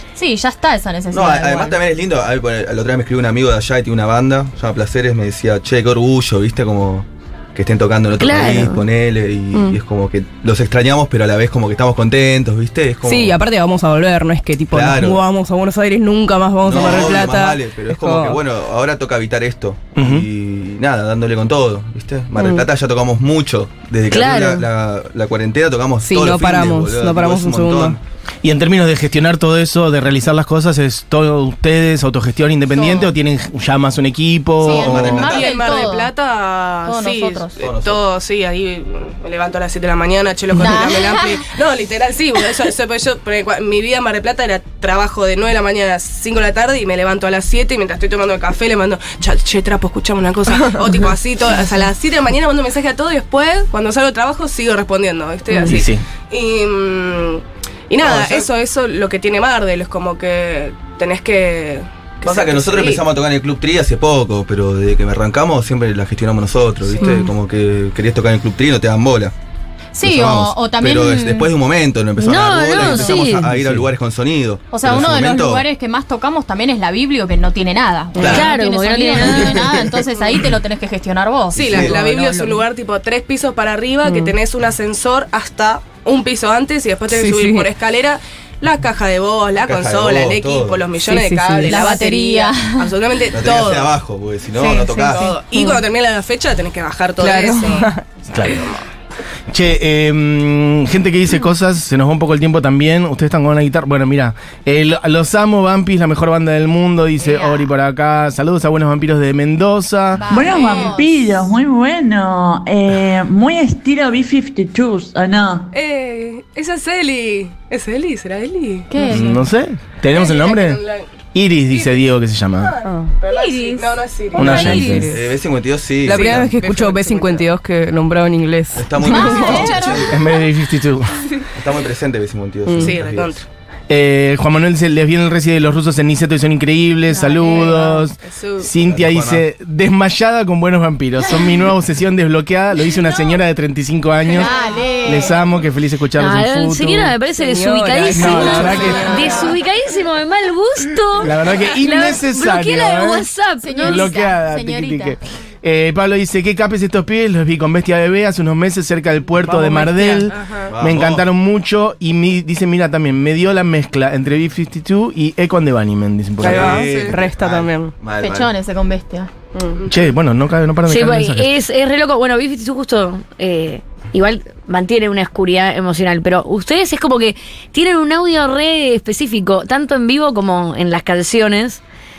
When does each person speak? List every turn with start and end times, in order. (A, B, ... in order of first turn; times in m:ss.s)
0:00.2-0:01.8 A
0:01.1-0:13.4 B
0:08.2-0:08.8 C
0:13.0-0:18.4 D
0:14.7-0:15.2 B
0:16.6-0:28.0 B
0:20.0-0:20.3 E
0:22.4-0:22.6 D
0:24.1-0:24.6 C
0:26.0-0:28.0 D
0:28.4-0:35.3 E
0:32.7-0:33.1 A
0:34.6-0:36.1 A
0:34.6-0:35.8 B
0:35.2-1:03.0 F
0:36.8-0:37.6 A
0:37.6-0:38.0 B
0:40.5-0:41.4 A
0:55.6-0:56.0 E
0:58.0-0:58.5 B
1:02.2-1:09.3 B
1:06.8-1:07.3 F
1:09.9-1:11.5 A
1:10.0-1:15.6 B
1:12.2-1:13.5 C
1:12.8-1:13.1 A
1:13.4-1:13.9 E
1:14.7-1:22.6 A
1:18.2-1:18.5 B
1:18.2-1:19.8 C
1:19.4-1:19.8 B
1:21.5-1:22.0 B
1:21.6-1:34.0 F
1:24.0-1:24.4 D
1:27.1-1:27.7 D
1:29.6-1:30.9 B
1:31.0-1:32.0 D
1:31.6-1:32.9 A
1:33.3-1:35.3 B
1:34.5-1:35.4 A
1:35.1-1:37.9 F
1:37.2-1:38.0 D
1:38.3-1:38.7 E
1:38.4-1:38.7 F
1:39.5-1:50.3 E
1:47.2-1:47.6 A
1:50.2-1:51.3 A
1:50.2-1:55.7 G
1:55.7-1:59.0 F
1:58.9-1:59.4 A
1:59.1-2:00.8 E
2:00.1-2:01.1 F
2:01.3-2:02.7 E
2:01.7-2:02.0 F
2:02.6-2:05.2 F
2:02.8-2:03.1 D
2:03.2-2:04.6 A
2:04.3-2:05.3 D
2:04.3-2:05.1 E
2:05.1-2:06.6 B
2:06.0-2:10.0 D
2:06.0-2:07.5 F
2:08.7-2:10.3 B
2:09.0-2:10.4 A
2:09.2-2:09.9 F
2:10.0-2:11.3 E
2:11.5-2:13.4 B
2:12.7-2:13.0 D
2:12.8-2:13.4 F
2:13.9-2:27.2 E
2:17.1-2:17.9 A
2:17.5-2:18.7 F
2:18.8-2:19.4 B
2:24.3-2:25.4 A
2:26.2-2:34.1 C
2:27.3-2:29.5 D
2:28.1-2:29.3 E
2:28.7-2:29.5 A
2:31.2-2:33.3 E
2:33.6-2:35.2 A
2:33.8-2:46.8 E
2:39.4-2:40.3 D
2:40.2-2:40.7 F
2:40.7-2:41.2 B
2:46.4-2:48.5 B
2:46.4-2:47.9 D
2:46.4-2:47.2 F
2:48.2-2:49.3 A
2:49.5-2:49.8 D
2:49.9-2:51.6 E
2:50.8-3:01.8 C